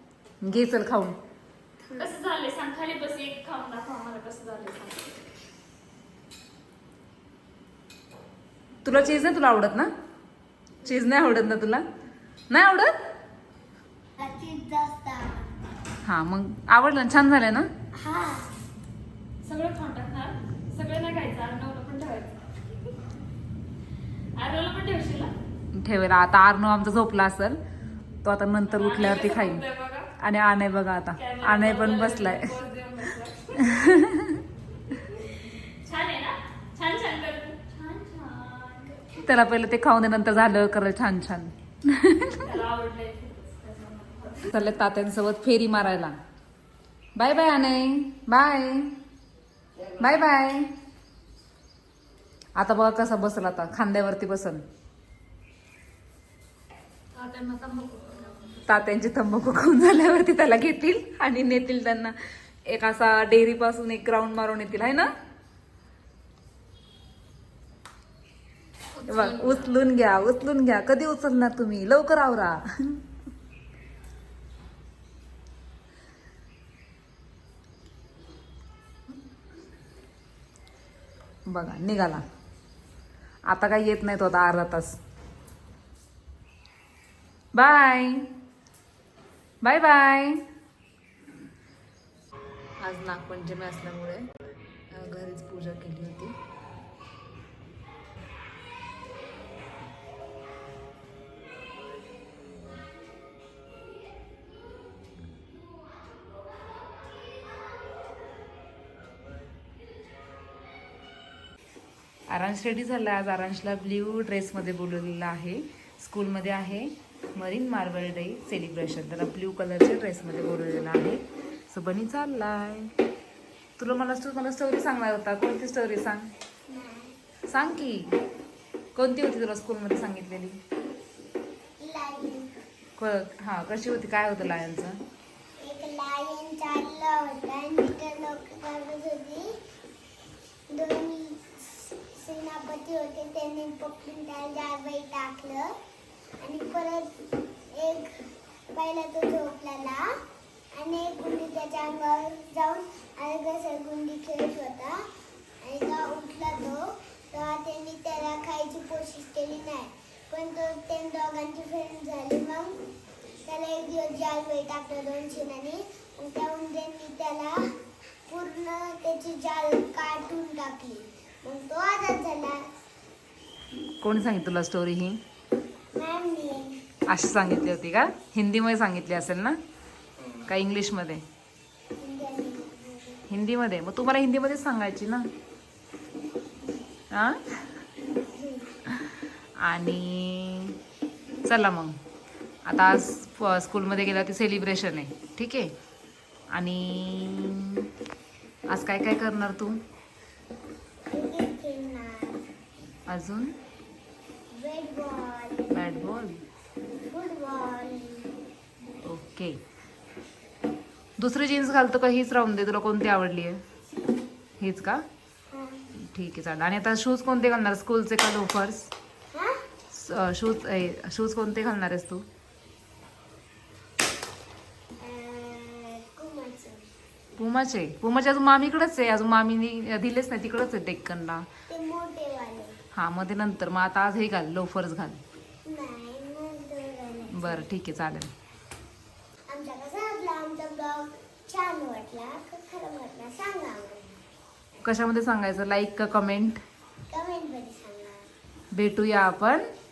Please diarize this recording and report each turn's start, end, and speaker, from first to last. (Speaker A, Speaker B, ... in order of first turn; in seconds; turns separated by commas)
Speaker A: 0.4-1.2, Speaker B: 1.9-5.2, Speaker A: 8.8-9.9, Speaker A: 10.8-11.8, Speaker A: 12.5-12.9, Speaker C: 14.2-15.5, Speaker A: 16.0-17.7, Speaker C: 18.0-18.5, Speaker B: 19.4-22.4, Speaker B: 24.4-25.3, Speaker A: 25.7-27.6, Speaker A: 28.2-29.6, Speaker B: 28.7-30.1, Speaker A: 30.2-32.6, Speaker B: 31.1-34.1, Speaker A: 33.6-34.4, Speaker B: 35.8-39.2, Speaker A: 39.2-42.5, Speaker B: 42.3-44.5, Speaker A: 44.4-46.1, Speaker A: 47.1-49.0, Speaker A: 50.0-50.7, Speaker A: 52.6-54.6, Speaker B: 57.1-58.6, Speaker A: 58.7-62.1, Speaker A: 62.6-65.1, Speaker B: 69.0-69.6, Speaker A: 69.1-73.0, Speaker A: 81.5-82.2, Speaker A: 83.5-85.0, Speaker A: 87.5-88.3, Speaker A: 89.6-90.4, Speaker A: 92.8-94.2, Speaker A: 94.9-96.3, Speaker A: 112.3-122.9, Speaker A: 123.8-126.3, Speaker C: 126.7-127.2, Speaker A: 127.5-128.2, Speaker A: 128.9-130.6, Speaker C: 131.8-132.5, Speaker A: 133.0-135.0, Speaker C: 135.6-139.5, Speaker C: 140.7-145.7, Speaker C: 146.4-147.1, Speaker C: 147.7-148.2, Speaker C: 148.7-150.1, Speaker C: 150.7-155.0, Speaker C: 155.6-162.7, Speaker C: 163.4-167.6, Speaker C: 168.3-172.6, Speaker A: 174.0-175.2, Speaker C: 175.9-176.8, Speaker A: 177.1-179.6, Speaker A: 180.5-181.2, Speaker C: 182.0-183.2, Speaker A: 183.3-185.2, Speaker A: 187.1-187.5, Speaker C: 188.3-188.7, Speaker A: 189.0-190.8, Speaker A: 191.4-191.9, Speaker A: 192.7-195.7, Speaker A: 196.5-197.9, Speaker A: 198.7-199.8, Speaker C: 201.1-202.4, Speaker A: 203.1-203.5, Speaker C: 204.5-205.7, Speaker A: 205.7-206.4, Speaker C: 207.1-208.3, Speaker A: 209.0-209.6, Speaker A: 211.2-213.6, Speaker A: 214.6-215.0, Speaker C: 215.5-215.8, Speaker A: 216.1-218.9, Speaker A: 219.9-222.2, Speaker C: 225.0-226.9, Speaker A: 227.3-231.5, Speaker C: 231.7-232.8, Speaker A: 232.9-235.2, Speaker C: 235.7-237.6, Speaker A: 237.3-238.3, Speaker C: 239.5-244.2, Speaker A: 244.8-246.6, Speaker C: 247.1-248.2, Speaker A: 248.7-249.6